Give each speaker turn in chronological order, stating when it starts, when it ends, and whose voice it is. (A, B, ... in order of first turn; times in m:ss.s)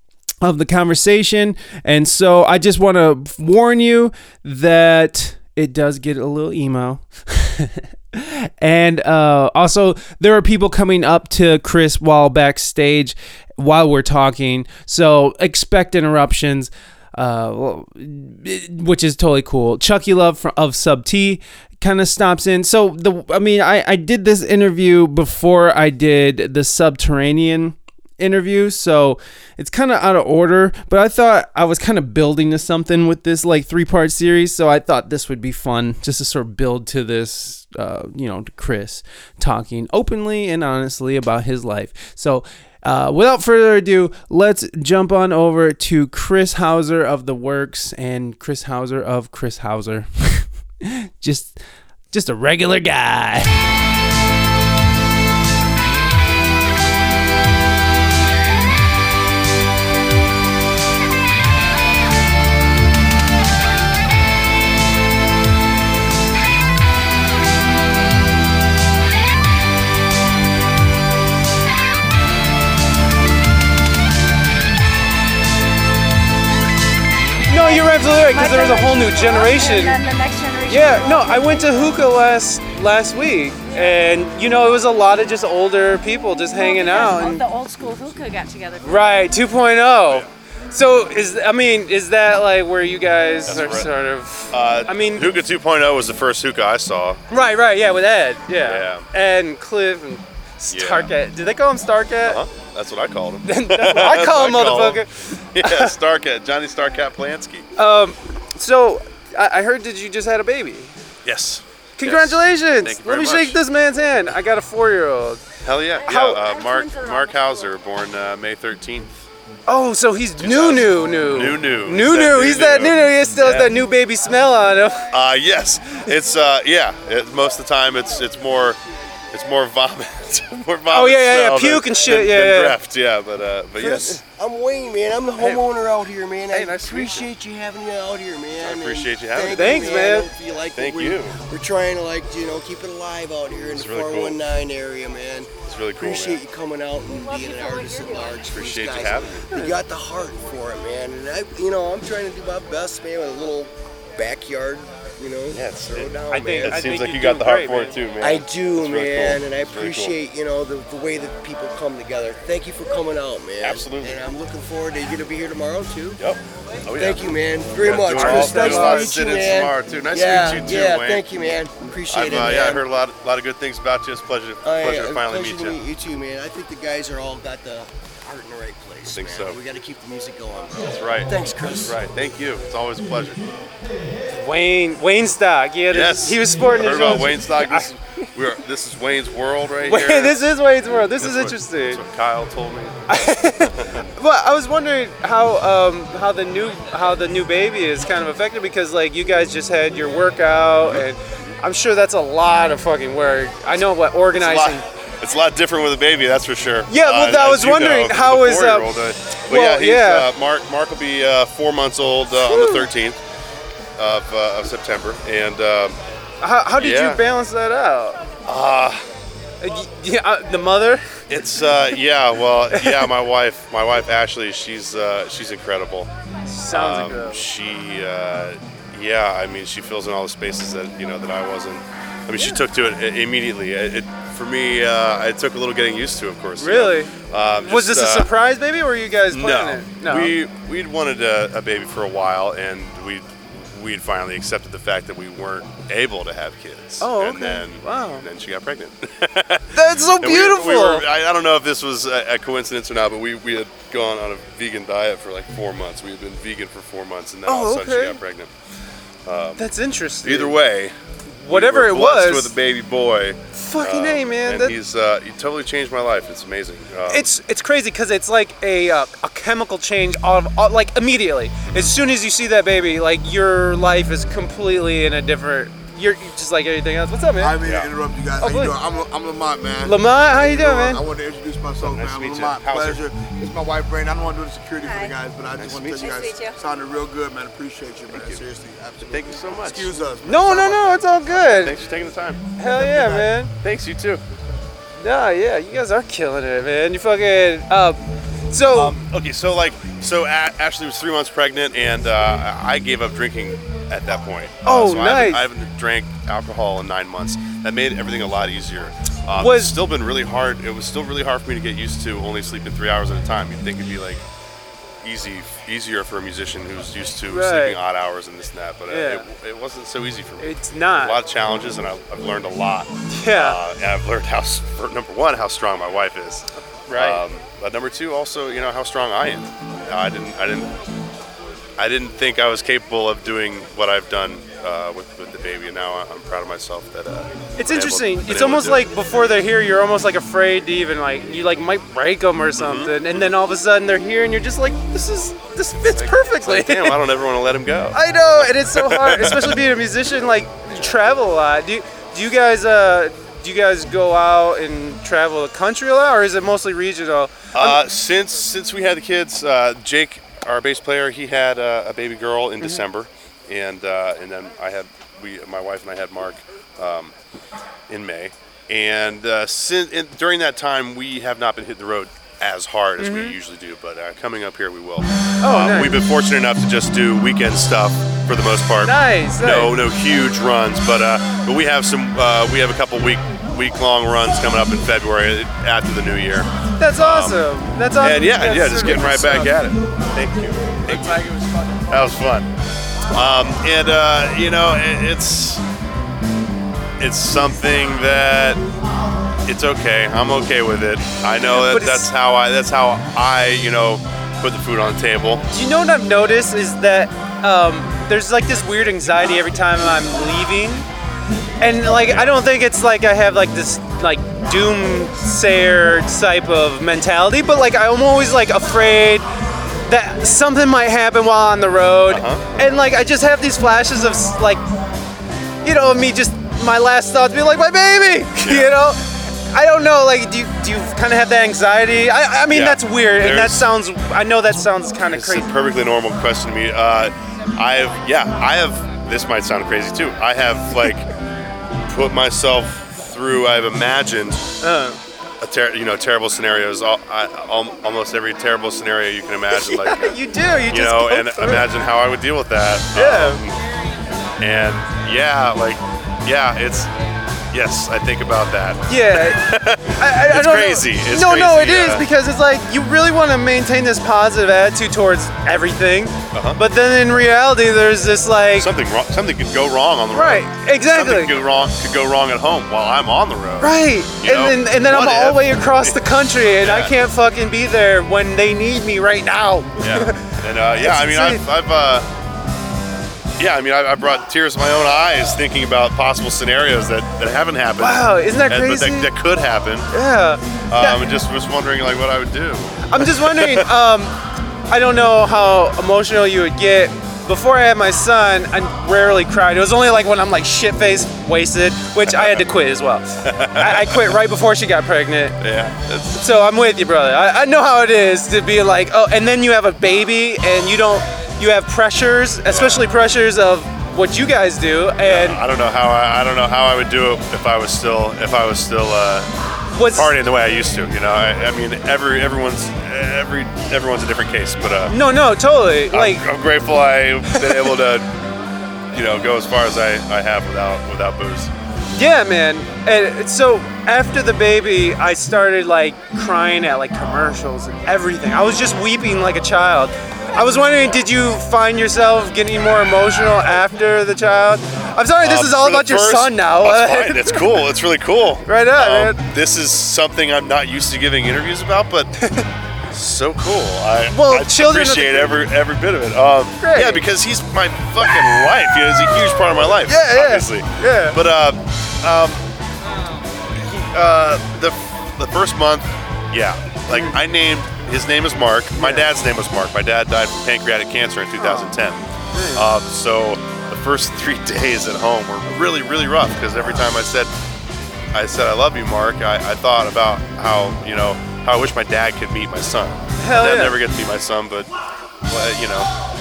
0:00.4-0:51.6 A
0:52.1-0:53.5 A
1:17.5-1:20.0 A
1:17.5-1:22.1 B
1:20.7-1:27.4 A
1:23.7-1:24.1 B
1:26.5-1:29.3 B
1:28.8-1:35.4 A
1:33.5-1:33.9 C
1:34.5-1:37.2 C
1:37.3-1:42.4 A
1:38.6-1:39.1 C
1:40.7-1:41.1 C
1:42.2-1:47.7 C
1:43.4-1:46.0 A
1:47.8-1:50.9 A
1:51.2-1:53.6 C
1:52.0-1:55.4 A
1:55.6-1:59.1 C
1:55.9-1:57.8 B
1:56.0-1:56.4 A
1:59.7-2:05.1 A
2:00.4-2:03.7 C
2:05.1-2:08.8 C
2:09.3-2:14.2 C
2:10.9-2:12.8 A
2:13.8-2:14.2 A
2:14.0-2:36.8 D
2:15.4-2:15.7 C
2:16.5-2:17.3 C
2:18.6-2:19.9 C
2:19.5-2:20.3 A
2:20.7-2:21.4 C
2:23.7-2:24.4 C
2:25.7-2:26.4 C
2:27.1-2:28.5 B
2:28.5-2:29.5 C
2:29.5-2:29.8 A
2:35.5-2:40.2 C
2:36.3-2:38.0 A
2:38.2-2:46.2 D
2:43.6-2:44.2 C
2:46.2-2:51.2 C
2:47.0-2:52.8 D
2:48.1-2:49.1 A
2:52.1-2:55.8 C
2:54.6-3:02.0 D
2:59.1-2:59.6 C
3:00.9-3:01.3 C
3:01.8-3:03.4 C
3:04.3-3:07.9 A
3:05.9-3:14.0 C
3:09.8-3:12.0 A
3:13.1-3:24.8 A
3:24.3-3:33.2 C
3:26.9-3:29.0 A
3:29.5-3:30.3 A
3:32.3-3:32.9 A
3:34.0-3:36.0 C
3:36.4-3:38.2 A
3:36.8-3:37.2 C
3:38.4-3:39.0 C
3:39.6-3:41.0 A
3:41.3-3:46.1 C
3:42.7-3:43.1 A
3:46.5-3:47.4 A
3:46.7-3:58.3 C
3:56.6-3:57.1 A
3:57.6-4:00.4 A
3:59.3-4:18.5 C
4:07.0-4:08.3 A
4:09.7-4:11.0 A
4:17.4-4:18.2 A
4:19.2-4:19.7 C
4:19.6-4:20.6 A
4:20.2-4:20.9 C
4:21.4-4:22.5 A
4:21.5-4:27.3 C
4:23.5-4:24.8 A
4:27.1-4:37.6 A
4:31.6-4:31.9 C
4:37.4-4:51.6 E
4:37.6-4:37.9 C
4:38.4-4:38.7 A
4:39.8-4:41.0 A
4:41.8-4:43.0 C
4:44.8-4:45.2 B
4:45.5-4:46.0 C
4:45.8-4:46.6 B
4:48.1-4:48.4 C
4:49.0-4:50.0 C
4:50.2-4:51.8 A
4:51.6-4:52.4 C
4:52.6-4:53.5 A
4:52.6-4:53.3 E
4:53.6-4:54.2 C
4:55.0-4:59.0 A
4:58.7-5:14.2 C
5:04.6-5:05.5 A
5:09.4-5:09.7 A
5:15.0-5:30.7 C
5:17.3-5:17.8 A
5:18.9-5:19.2 A
5:20.4-5:21.2 A
5:23.1-5:23.6 A
5:26.9-5:27.2 A
5:31.8-5:38.9 C
5:37.6-5:47.0 A
5:42.6-5:43.3 C
5:45.8-5:49.6 C
5:47.9-5:57.8 A
5:57.5-6:07.1 C
6:07.9-6:27.4 C
6:13.0-6:13.4 A
6:15.4-6:16.0 A
6:18.8-6:19.8 A
6:26.8-6:29.6 A
6:28.0-6:31.3 C
6:30.9-6:31.9 A
6:31.9-6:32.5 C
6:33.1-6:35.6 C
6:37.0-6:38.6 C
6:39.4-6:45.4 C
6:41.5-6:42.1 A
6:45.5-6:50.9 A
6:51.6-6:59.2 A
6:52.0-6:52.4 C
6:59.8-7:04.6 A
7:02.1-7:02.7 C
7:05.6-7:15.5 A
7:08.4-7:08.7 C
7:12.5-7:13.7 C
7:15.1-7:21.1 C
7:21.9-7:24.4 C
7:24.6-7:25.0 A
7:25.4-7:30.2 C
7:29.5-7:31.6 A
7:30.7-7:33.6 C
7:32.9-7:33.4 A
7:34.4-7:36.9 C
7:37.5-7:42.0 C
7:38.9-7:48.7 A
7:46.3-7:46.6 C
7:48.6-7:56.0 C
7:50.1-7:51.3 A
7:53.6-8:01.4 A
7:56.6-7:56.9 C
7:59.8-8:02.0 C
8:03.4-8:09.9 C
8:07.8-8:09.1 A
8:09.9-8:11.0 A
8:10.7-8:13.7 C
8:12.9-8:14.1 A
8:14.7-8:25.4 A
8:22.1-8:22.4 C
8:23.2-8:24.2 C
8:25.4-8:26.2 C
8:26.1-8:35.4 A
8:32.5-8:32.8 C
8:35.0-8:39.3 C
8:39.7-8:40.2 A
8:39.9-8:45.0 C
8:44.9-8:46.2 A
8:45.9-8:48.1 C
8:47.3-8:47.7 A
8:48.9-8:51.5 C
8:52.0-9:07.6 A
9:05.2-9:12.1 C
9:08.4-9:09.2 A
9:12.2-9:12.5 A
9:12.9-9:22.4 C
9:14.1-9:15.5 A
9:16.6-9:17.0 A
9:19.9-9:21.2 A
9:23.5-9:32.0 C
9:26.9-9:27.2 A
9:28.8-9:29.1 A
9:31.4-9:31.8 A
9:32.3-9:32.7 A
9:32.5-9:37.3 C
9:38.1-9:44.7 C
9:43.2-9:43.8 A
9:45.3-9:45.9 C